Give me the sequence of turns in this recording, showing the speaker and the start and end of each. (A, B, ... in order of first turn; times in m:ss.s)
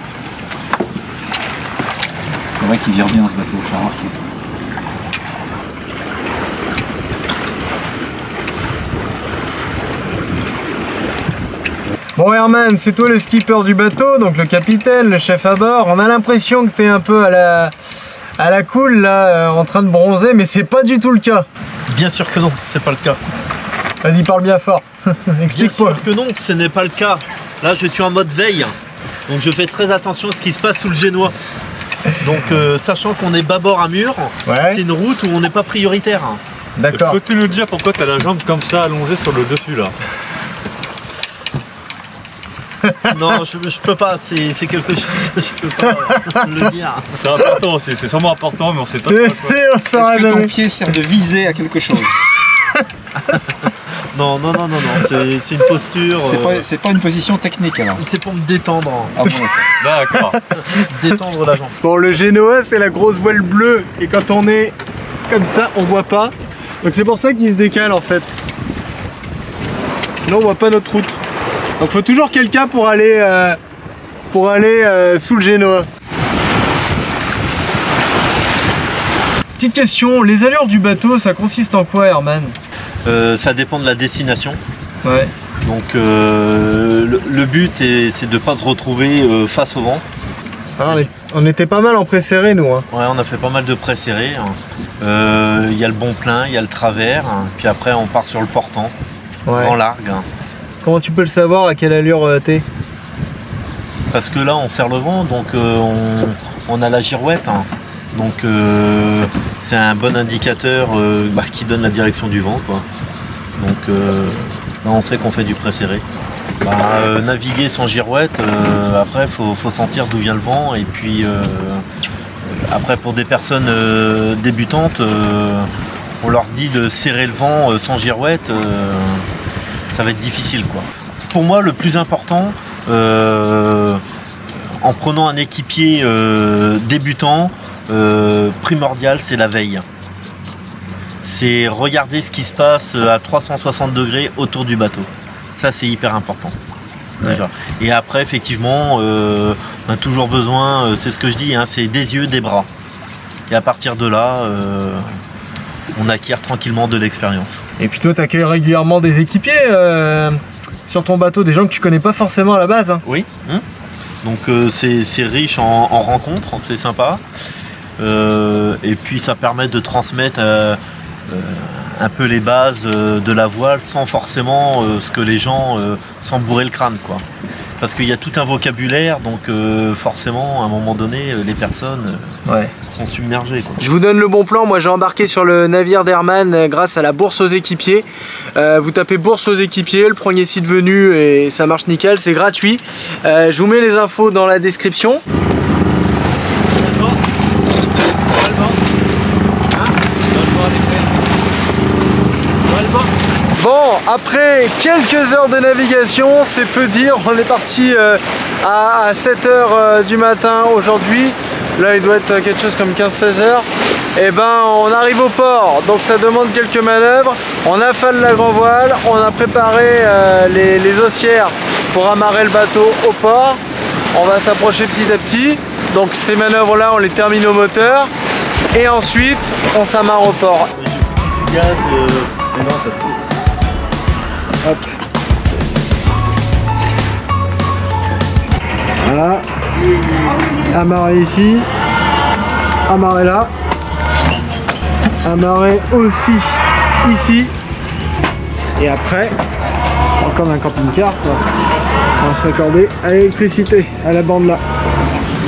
0:02.6-0:04.1 A
0:12.2-0:17.7 B
0:18.4-0:21.5 B
0:21.9-0:23.2 C
0:24.0-0:26.0 B
0:25.5-0:28.7 C
0:29.3-0:31.4 C
0:32.2-0:36.4 C
0:34.4-0:34.8 B
0:36.8-0:37.2 B
0:36.9-0:39.9 D
0:43.1-0:47.2 C
0:46.1-0:46.4 B
0:47.2-0:49.7 D
0:49.1-0:50.5 B
0:49.9-0:52.1 A
0:53.2-0:56.7 C
0:56.2-0:58.0 A
0:57.9-0:59.2 C
0:59.2-0:59.5 A
0:59.7-1:00.4 D
1:00.4-1:01.8 C
1:01.8-1:04.8 B
1:05.3-1:08.3 B
1:10.2-1:11.2 B
1:11.8-1:13.6 B
1:14.3-1:15.9 B
1:19.6-1:22.6 B
1:23.0-1:24.6 C
1:25.0-1:25.3 B
1:25.6-1:30.0 C
1:30.8-1:32.9 B
1:32.9-1:38.9 C
1:39.4-1:39.7 B
1:39.5-1:40.2 C
1:40.8-1:42.6 B
1:44.1-1:52.8 C
1:53.6-1:56.0 C
1:56.6-2:01.8 C
2:02.4-2:05.7 C
2:06.2-2:09.3 C
2:09.9-2:19.8 C
2:21.2-2:26.5 C
2:27.2-2:32.7 C
2:33.5-2:35.0 C
2:35.9-2:37.6 C
2:37.8-2:43.0 B
2:43.0-2:43.6 C
2:44.2-2:47.2 C
2:48.0-2:57.2 C
2:57.8-3:02.4 C
3:02.4-3:02.7 B
3:02.9-3:03.8 C
3:03.8-3:15.2 B
3:16.8-3:17.2 C
3:19.7-3:21.0 C
3:22.7-3:23.1 C
3:23.5-3:43.6 B
3:44.1-3:48.1 B
3:48.7-3:50.7 B
3:50.7-3:53.2 C
3:54.6-3:54.9 B
3:59.0-3:59.4 B
4:00.7-4:01.7 B
4:02.9-4:03.5 B
4:05.2-4:07.5 B
4:08.8-4:09.3 B
4:10.2-4:11.4 B
4:12.2-4:14.6 B